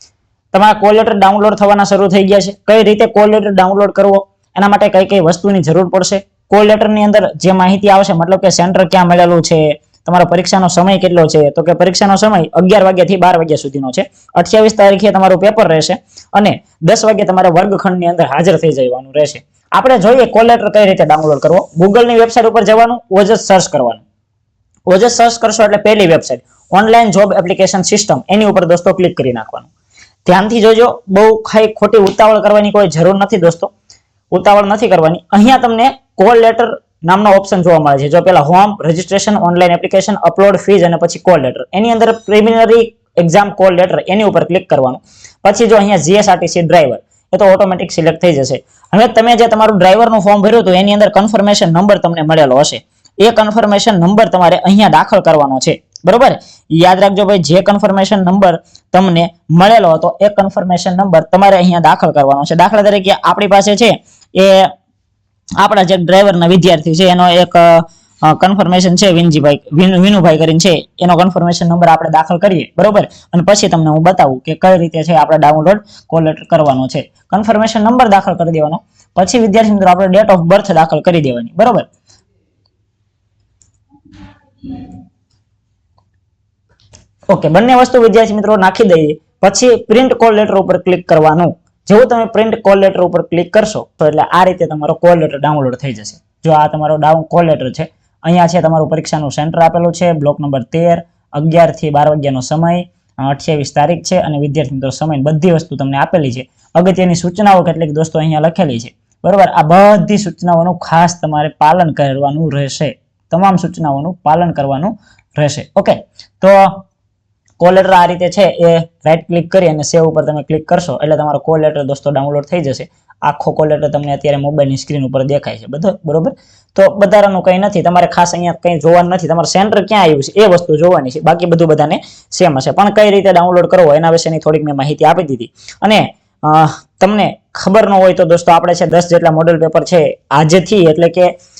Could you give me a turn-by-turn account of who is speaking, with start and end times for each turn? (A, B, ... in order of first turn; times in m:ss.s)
0:00.5-0:24.0 A
0:24.9-0:29.7 A
0:30.2-0:33.7 A
0:34.3-1:04.7 A
1:05.6-1:21.9 A
1:27.3-1:56.8 A
1:57.6-2:21.3 A